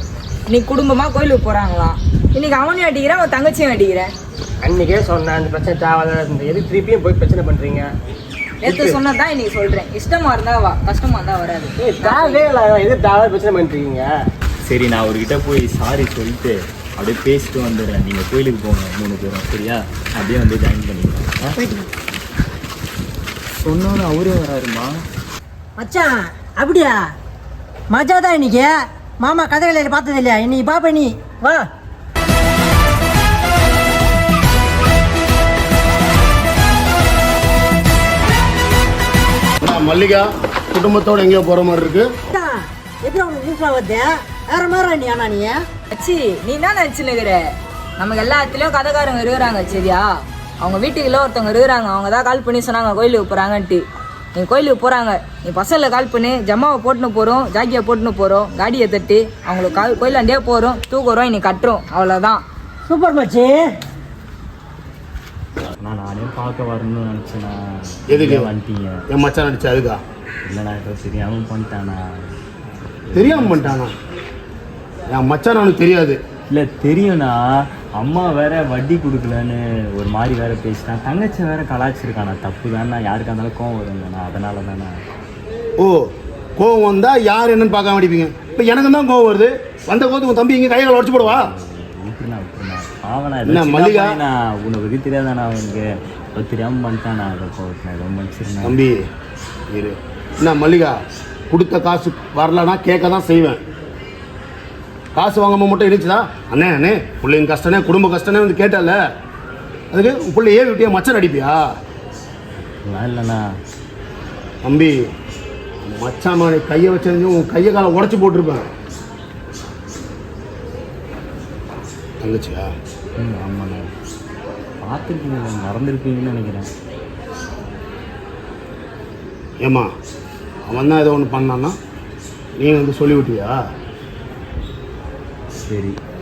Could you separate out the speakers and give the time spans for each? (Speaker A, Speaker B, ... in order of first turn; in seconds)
Speaker A: 0.5-4.1, 8.6-12.5, 45.9-53.8, 54.3-62.4
Speaker B: 4.7-7.9, 8.7-8.9, 11.8-14.1
Speaker C: 14.7-21.5, 23.6-25.0, 65.8-69.0, 70.4-72.3, 73.1-73.8, 76.5-85.0, 91.2-98.8, 112.8-113.5, 123.2-123.9, 124.8-126.7, 135.7-136.0
Speaker D: 21.5-21.9, 25.8-27.0, 27.9-31.7, 42.3-45.6, 62.9-63.7
Speaker E: 39.6-42.1, 68.1-68.5, 69.1-70.0, 73.1-73.9, 75.1-76.2, 85.8-91.5, 93.4-94.2, 98.6-99.1, 99.7-103.6, 105.1-109.0, 109.9-111.6, 114.6-115.0, 115.8-118.7, 122.2-122.7, 129.6-129.9, 130.7-131.8, 132.6-133.6